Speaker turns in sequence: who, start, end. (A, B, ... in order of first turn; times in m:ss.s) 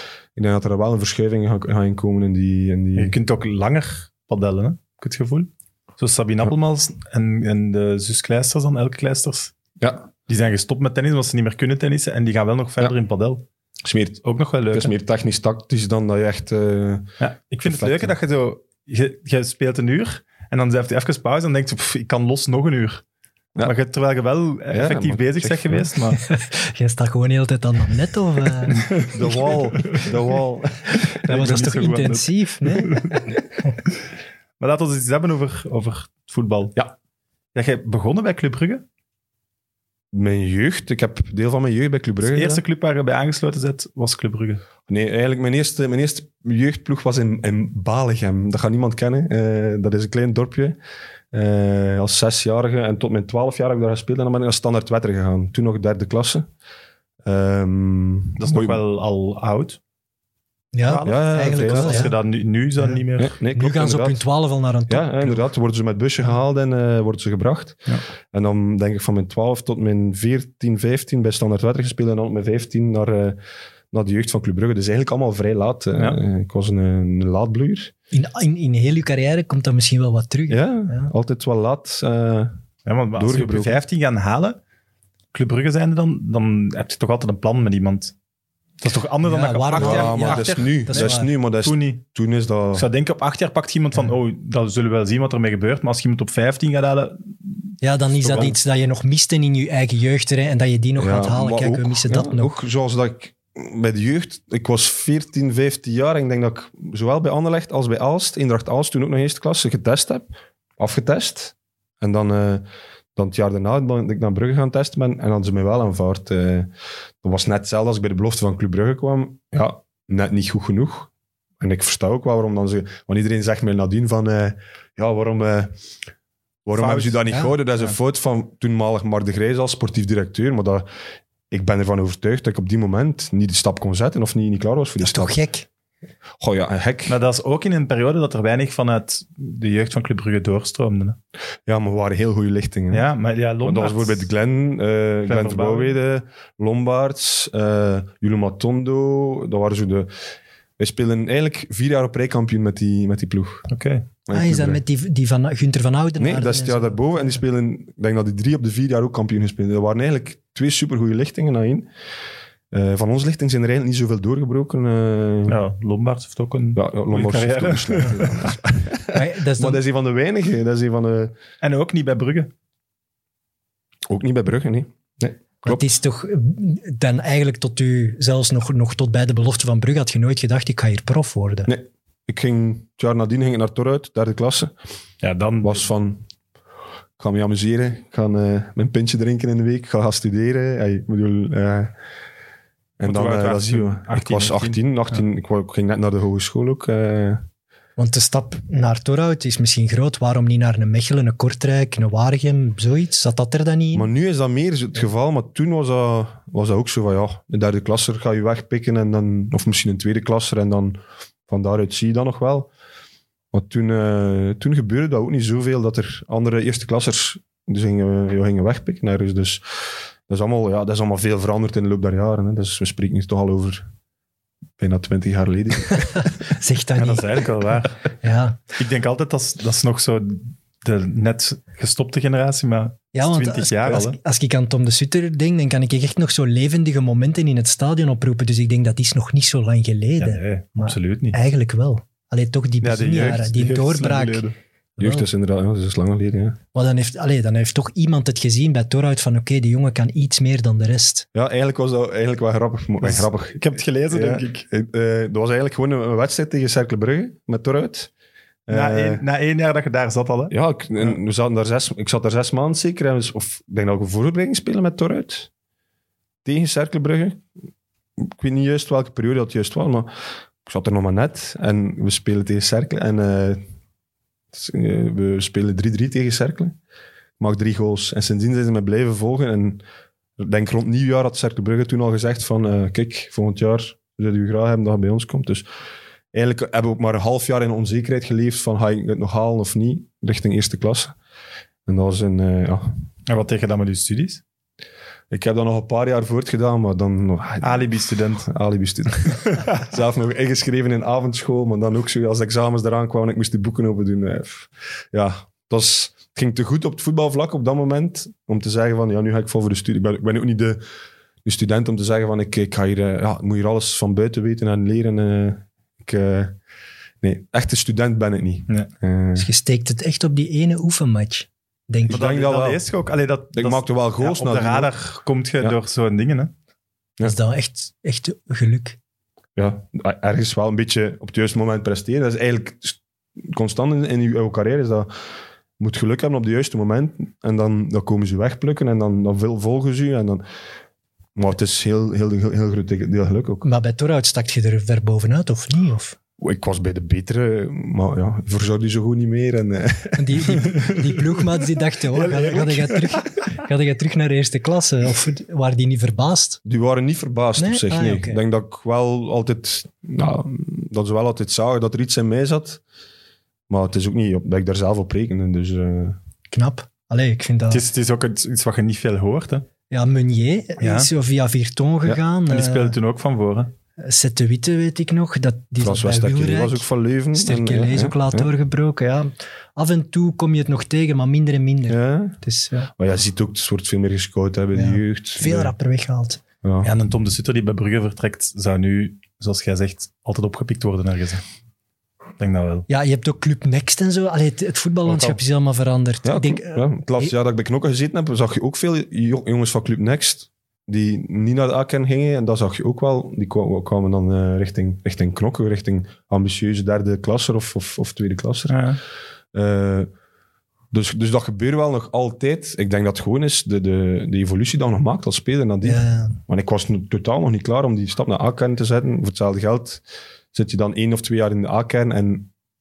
0:00.4-0:03.2 A
0:03.0-0:09.5 B
0:09.8-0:10.1 A
0:10.3-0:13.4 B
0:13.8-0:17.1 A
0:14.2-0:14.9 B
0:17.2-0:23.0 B
0:17.6-0:18.2 A
0:23.6-0:26.2 B
0:24.7-0:25.9 A
0:26.2-0:28.9 C
0:28.7-0:30.1 B
0:29.0-0:31.0 A
0:31.2-0:33.2 B
0:31.2-0:33.3 C
0:34.6-0:36.8 B
0:37.6-0:38.8 B
0:40.1-0:42.6 A
0:42.2-0:44.6 B
0:44.9-0:50.8 A
0:51.3-0:56.5 A
0:57.2-0:58.8 A
0:58.4-0:59.8 B
1:00.7-1:02.1 C
1:00.9-1:03.4 B
1:01.0-1:02.1 A
1:03.2-1:04.2 A
1:03.5-1:05.4 C
1:04.9-1:13.4 A
1:13.9-1:17.9 A
1:18.1-1:21.1 C
1:20.5-1:22.6 A
1:22.9-1:24.6 B
1:23.2-1:23.8 A
1:25.3-1:28.1 B
1:28.8-1:32.0 B
1:29.2-1:31.3 C
1:29.7-1:32.9 A
1:32.7-1:37.7 B
1:37.8-1:42.5 C
1:38.2-1:38.6 A
1:41.0-1:52.6 A
1:53.2-1:56.7 A
1:57.2-2:05.7 A
2:06.6-2:10.8 A
2:06.7-2:07.2 B
2:11.5-2:15.4 A
2:15.0-2:15.7 C
2:16.4-2:17.2 A
2:17.1-2:21.2 B
2:21.7-2:23.1 A
2:22.9-2:24.3 B
2:23.6-2:30.1 A
2:25.3-2:26.0 B
2:30.8-2:33.7 A
2:33.7-2:34.1 B
2:34.3-2:34.8 A
2:34.3-2:37.4 C
2:36.2-2:41.9 A
2:42.7-2:45.6 A
2:45.5-2:48.5 B
2:46.8-2:51.4 A
2:49.1-2:49.8 C
2:51.6-2:52.5 B
2:54.1-2:55.8 A
2:55.6-3:01.7 C
3:01.7-3:04.7 A
3:05.2-3:05.8 B
3:05.6-3:06.3 A
3:07.2-3:11.9 A
3:13.0-3:17.4 A
3:13.0-3:14.8 B
3:18.0-3:24.1 C
3:23.9-3:32.7 A
3:33.5-3:39.6 A
3:40.3-3:43.9 A
3:44.8-3:46.4 A
3:46.2-3:47.4 C
3:47.0-3:48.0 B
3:48.2-3:48.6 C
3:48.8-3:54.2 B
3:53.1-4:04.5 C
4:00.2-4:01.4 B
4:02.8-4:04.5 B
4:05.0-4:05.3 C
4:05.0-4:06.6 A
4:06.7-4:11.3 C
4:11.3-4:18.1 A
4:13.0-4:14.7 B
4:18.7-4:19.2 A
4:18.7-4:20.5 B
4:20.5-4:25.5 A
4:26.4-4:27.4 A
4:28.2-4:33.6 A
4:34.5-4:36.8 A
4:37.4-4:39.8 A
4:40.4-4:45.7 A
4:46.3-4:51.1 A
4:51.9-4:53.0 A
4:53.3-4:54.4 B
4:55.3-4:57.9 A
4:57.6-4:58.5 B
4:58.4-5:10.8 A
5:11.4-5:16.6 A
5:17.2-5:19.5 A
5:19.4-5:22.2 C
5:22.1-5:22.8 A
5:22.1-5:26.5 B
5:23.5-5:24.9 A
5:27.2-5:29.0 C
5:29.6-5:35.1 A
5:35.8-5:40.4 A
5:41.4-5:43.7 A
5:43.6-5:46.2 C
5:46.4-5:50.8 A
5:50.2-5:56.6 C
5:52.2-5:52.7 B
5:52.3-5:52.8 A
5:56.6-6:02.8 A
5:57.6-5:58.4 C
6:03.7-6:06.2 A
6:06.5-6:07.8 C
6:07.7-6:09.7 B
6:09.9-6:13.0 C
6:10.8-6:11.1 B
6:12.5-6:13.7 B
6:14.0-6:16.8 C
6:15.8-6:18.5 A
6:17.4-6:22.9 C
6:21.9-6:22.4 A
6:23.0-6:25.7 A
6:24.8-6:26.4 C
6:26.6-6:26.9 A
6:26.8-6:31.4 B
6:32.4-6:32.9 B
6:32.9-6:37.3 C
6:35.1-6:35.4 B
6:36.2-6:48.8 A
6:48.7-6:49.0 B
6:49.5-6:50.1 A
6:50.9-7:02.5 A
6:55.8-6:56.4 C